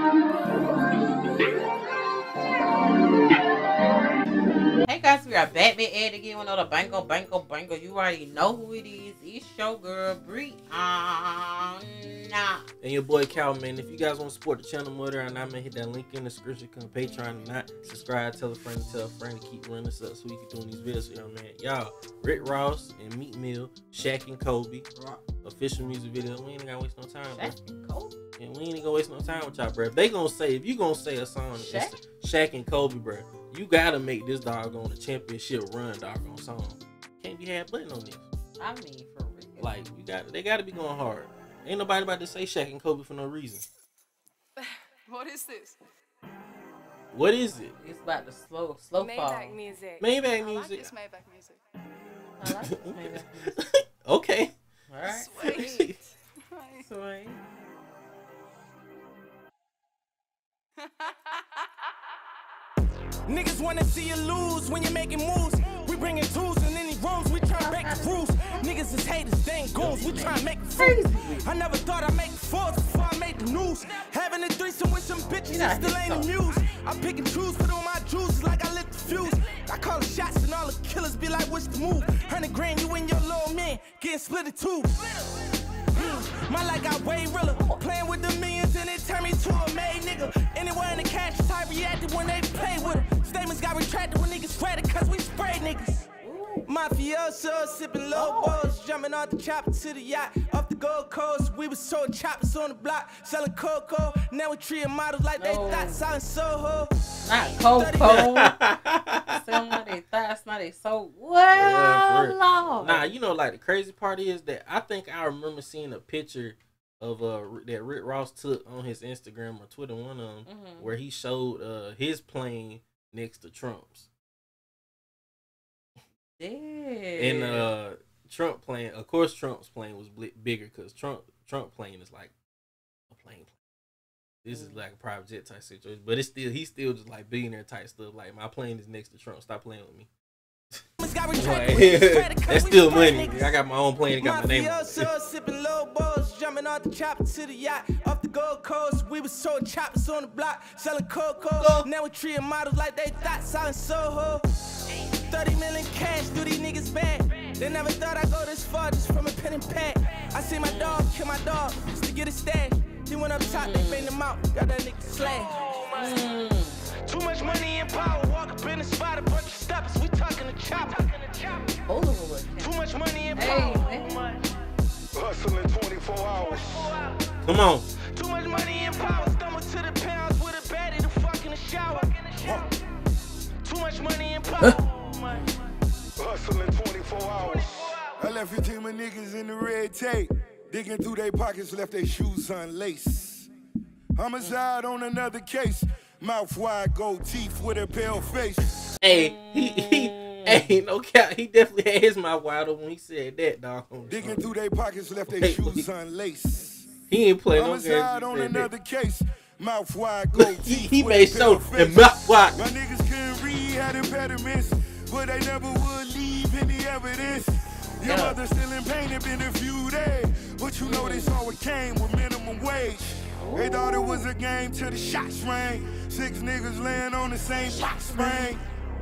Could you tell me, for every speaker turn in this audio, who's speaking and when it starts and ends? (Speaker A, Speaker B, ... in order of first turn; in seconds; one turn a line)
Speaker A: 0.3-1.6
Speaker A: 4.8-12.6
Speaker B: 12.8-24.9
Speaker B: 25.4-27.6
Speaker A: 27.3-28.2
Speaker B: 28.4-38.2
Speaker A: 31.6-31.9
Speaker A: 38.6-39.8
Speaker B: 39.6-43.7
Speaker C: 44.6-45.8
Speaker B: 47.1-47.8
Speaker A: 47.8-49.6
Speaker C: 49.0-51.6
Speaker B: 50.0-50.9
Speaker A: 52.4-53.5
Speaker B: 52.5-54.5
Speaker A: 54.9-55.3
Speaker C: 55.0-56.0
Speaker B: 55.4-55.9
Speaker C: 56.5-56.9
Speaker A: 56.8-57.4
Speaker D: 63.3-96.1
Speaker A: 67.5-68.6
Speaker A: 69.8-71.5
Speaker A: 75.5-76.3
Speaker A: 87.5-87.8
Speaker A: 96.2-96.7
Speaker D: 96.7-107.0
Speaker A: 98.1-98.6
Speaker A: 105.4-106.0
Speaker A: 107.2-108.6
Speaker D: 107.7-108.2
Speaker B: 108.0-109.9
Speaker A: 109.3-113.1
Speaker B: 111.5-124.1
Speaker A: 120.4-120.9
Speaker A: 126.4-127.7
Speaker B: 127.2-132.3
Speaker B: 133.1-133.6
Speaker B: 134.4-140.1
Speaker A: 134.5-134.8
Speaker D: 141.0-143.6
Speaker B: 141.3-145.1
Speaker D: 144.2-166.2
Speaker B: 151.6-151.9
Speaker A: 160.7-161.1
Speaker A: 163.4-164.2
Speaker A: 165.9-166.9
Speaker D: 167.1-171.8
Speaker A: 171.8-172.8
Speaker D: 172.6-174.5
Speaker A: 173.3-174.4
Speaker E: 175.2-176.9
Speaker D: 176.3-177.3
Speaker B: 177.4-177.9
Speaker D: 178.0-182.7
Speaker D: 183.6-185.4
Speaker A: 185.3-185.7
Speaker E: 186.2-193.5
Speaker D: 187.2-188.1
Speaker E: 194.2-198.7
Speaker B: 199.0-204.5
Speaker A: 199.1-200.7
Speaker E: 204.1-206.9
Speaker B: 205.3-205.8
Speaker B: 207.1-208.7
Speaker E: 207.5-228.6
Speaker B: 210.3-212.6
Speaker A: 218.1-218.4
Speaker A: 220.8-221.4
Speaker A: 223.4-224.2
Speaker A: 227.7-228.5